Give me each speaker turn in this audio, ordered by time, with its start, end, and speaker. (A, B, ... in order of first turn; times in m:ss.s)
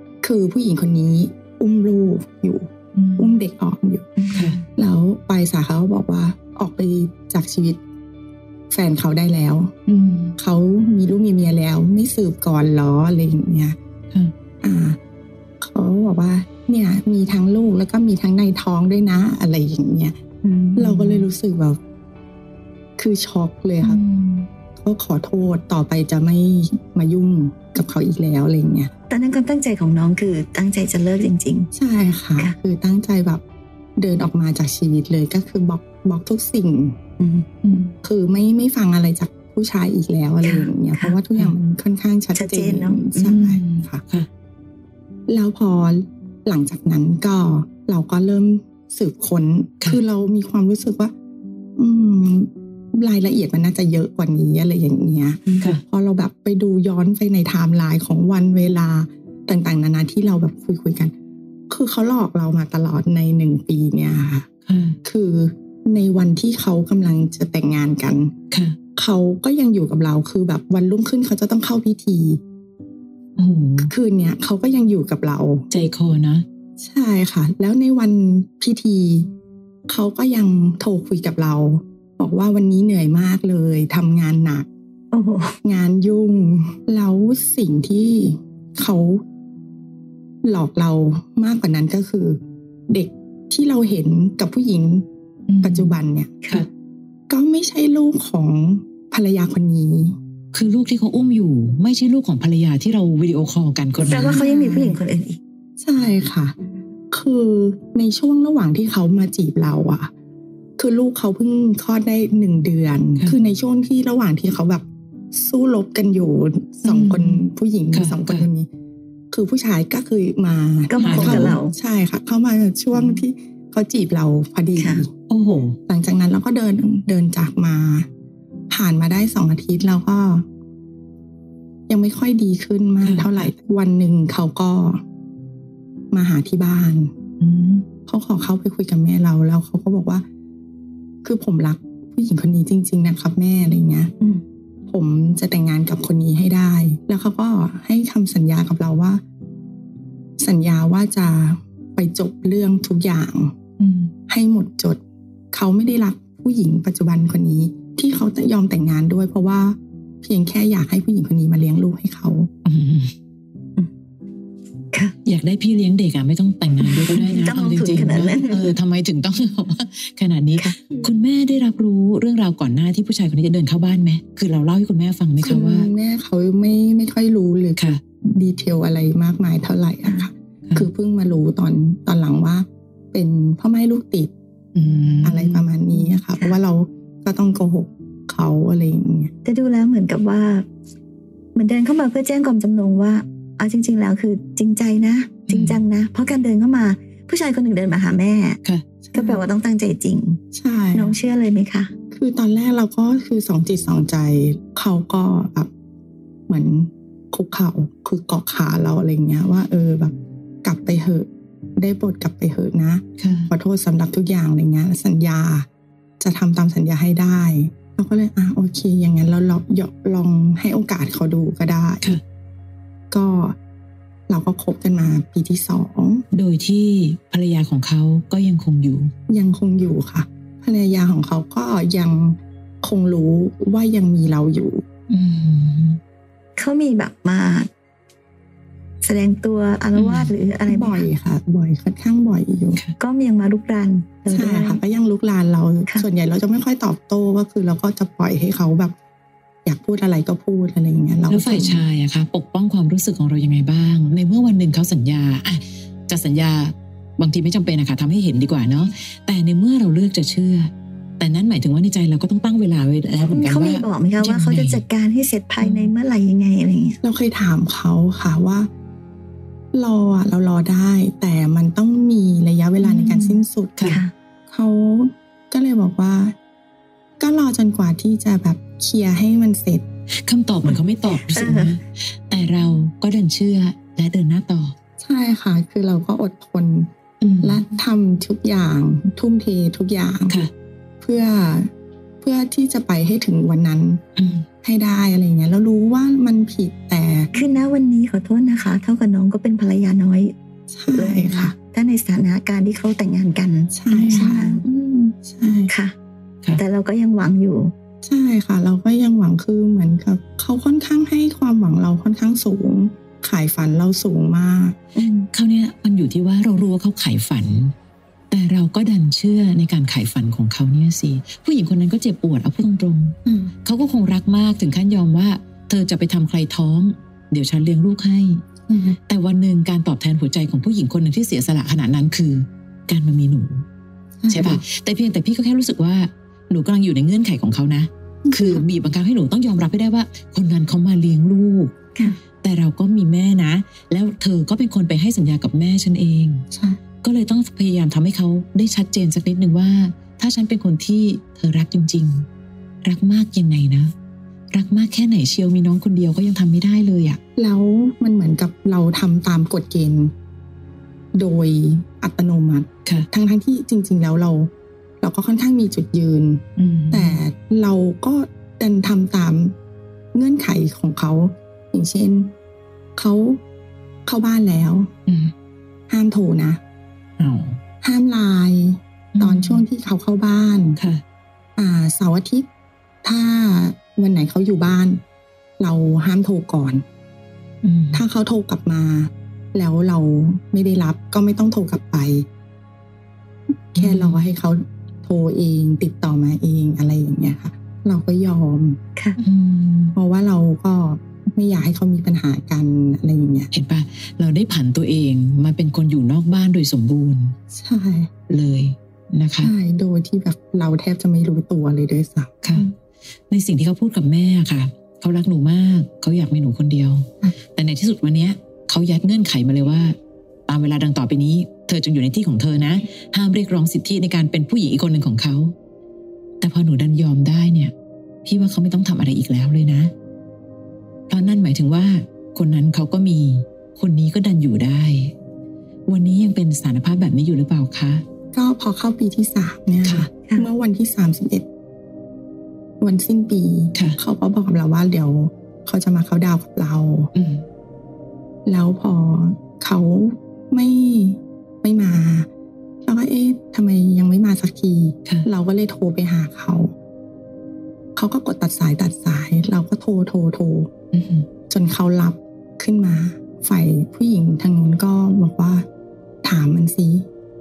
0:00.2-0:04.2 A
0:02.9-0:03.4 B
0:04.2-0:04.6 C
0:04.3-0:04.6 B
0:04.7-0:07.8 A
0:08.7-0:09.7 A
0:09.9-0:10.4 B
0:10.4-0:13.8 A
0:14.6-0:15.0 A
0:15.6-0:20.2 A
0:20.4-0:21.3 B
0:20.8-0:21.8 A
0:23.0-0:24.0 A
0:23.8-0:24.5 B
0:24.8-0:28.9 A
0:29.1-0:31.7 C
0:31.7-0:33.4 A
0:34.0-0:37.0 A
0:37.2-0:37.5 C
0:37.6-0:37.9 B
0:38.0-0:44.0 A
0:40.4-0:41.2 C
0:42.3-0:43.0 C
0:43.2-0:44.3 B
0:45.3-0:51.1 A
0:51.8-1:01.1 A
0:55.6-0:55.8 B
1:01.7-1:04.5 A
1:04.7-1:05.0 B
1:05.0-1:08.3 A
1:08.5-1:08.8 B
1:09.0-1:12.4 A
1:13.4-1:13.9 B
1:13.8-1:15.7 A
1:15.7-1:16.4 B
1:16.8-1:19.3 A
1:19.9-1:24.7 A
1:25.1-1:25.6 C
1:25.6-1:29.2 A
1:30.4-1:35.0 A
1:35.5-1:35.9 B
1:35.6-1:36.4 A
1:37.3-1:40.2 A
1:40.5-1:44.4 B
1:44.0-1:45.4 C
1:44.0-1:45.0 A
1:45.8-1:46.5 A
1:47.1-1:50.1 A
1:50.8-1:58.7 A
1:56.8-1:58.5 B
1:59.3-2:05.1 A
2:00.9-2:01.7 C
2:01.0-2:01.6 B
2:02.9-2:03.2 B
2:04.8-2:05.0 C
2:05.3-2:05.8 B
2:05.9-2:08.1 A
2:08.7-2:10.4 A
2:11.9-2:15.0 A
2:13.0-2:13.5 B
2:16.1-2:17.1 A
2:17.4-2:17.8 B
2:18.0-2:20.2 A
2:21.2-2:24.1 A
2:24.9-2:29.2 A
2:30.4-2:33.5 A
2:33.8-2:34.1 B
2:34.3-2:35.0 A
2:35.5-2:42.5 A
2:42.6-2:43.1 B
2:45.2-2:55.9 B
2:46.8-2:48.8 C
2:55.4-3:04.3 A
3:04.7-3:05.7 B
3:05.2-3:09.3 A
3:06.3-3:06.6 C
3:09.4-3:10.7 C
3:11.5-3:18.6 C
3:15.5-3:15.8 B
3:19.0-3:19.4 A
3:19.1-3:20.4 C
3:20.5-3:21.2 A
3:20.9-3:21.9 C
3:22.1-3:25.7 A
3:26.5-3:30.1 A
3:30.6-3:35.6 A
3:33.2-3:33.5 B
3:36.2-3:42.1 A
3:43.1-3:43.6 A
3:44.3-3:46.2 A
3:46.3-3:49.1 B
3:49.3-3:54.8 A
3:55.1-3:56.0 B
3:56.6-3:57.7 C
3:59.0-4:01.1 C
3:59.9-4:00.3 B
4:00.7-4:02.8 A
4:03.0-4:04.8 C
4:04.3-4:08.9 A
4:09.6-4:11.8 A
4:11.3-4:24.8 B
4:23.3-4:27.0 C
4:25.6-4:25.9 A
4:27.0-4:28.7 A
4:29.7-4:34.0 A
4:32.8-4:34.1 C
4:34.5-4:36.3 A
4:37.2-4:39.8 A
4:40.2-4:44.7 B
4:41.2-4:41.8 C
4:45.0-4:46.9 A
4:47.2-4:47.7 B
4:47.4-4:50.4 A
4:51.0-4:51.7 A
4:52.2-4:54.0 A
4:54.2-4:54.4 B
4:54.6-4:57.3 A
4:57.3-5:00.3 C
5:00.7-5:01.5 A
5:00.9-5:05.2 C
5:03.7-5:04.6 A
5:05.2-5:05.7 A
5:05.7-5:05.9 C
5:06.6-5:07.7 C
5:08.0-5:14.8 A
5:14.9-5:15.3 C
5:15.3-5:17.7 B
5:18.3-5:28.4 B
5:23.2-5:23.5 A
5:28.7-5:29.0 A
5:29.1-5:33.6 B
5:34.2-5:34.6 A
5:34.3-5:41.7 B
5:38.2-5:38.6 A
5:42.4-5:46.4 B
5:46.5-5:46.8 A
5:47.0-5:52.2 B
5:52.8-5:53.9 B
5:54.5-5:57.2 B
5:57.4-6:00.1 A
6:01.1-6:04.5 A
6:05.0-6:09.5 A
6:06.6-6:07.2 B
6:10.1-6:12.3 A
6:13.0-6:13.4 A
6:14.0-6:14.9 A
6:15.1-6:15.3 B
6:15.9-6:16.6 A
6:17.2-6:17.6 B
6:17.8-6:20.8 A
6:19.1-6:19.6 B
6:20.8-6:21.0 B
6:21.6-6:22.4 A
6:23.0-6:25.0 A
6:25.6-6:26.8 A
6:27.6-6:28.0 B
6:27.9-6:32.2 A
6:33.7-6:38.8 A
6:33.8-6:34.2 B
6:39.2-6:40.0 B
6:39.9-6:43.5 A
6:43.5-6:47.4 B
6:47.5-6:48.1 A
6:48.3-6:49.5 B
6:49.4-6:52.6 A
6:52.4-6:52.7 B
6:53.3-7:00.0 B
7:00.5-7:05.5 B
7:06.4-7:07.7 B
7:08.2-7:09.9 B
7:11.1-7:15.1 B
7:15.9-7:18.0 B
7:18.3-7:21.4 A
7:19.8-7:20.1 B
7:22.8-7:27.1 A
7:27.1-7:27.4 B
7:28.4-7:32.3 A
7:32.8-7:36.7 A
7:38.0-7:40.7 A
7:40.9-7:41.3 B
7:41.5-7:45.6 A
7:46.2-7:47.1 A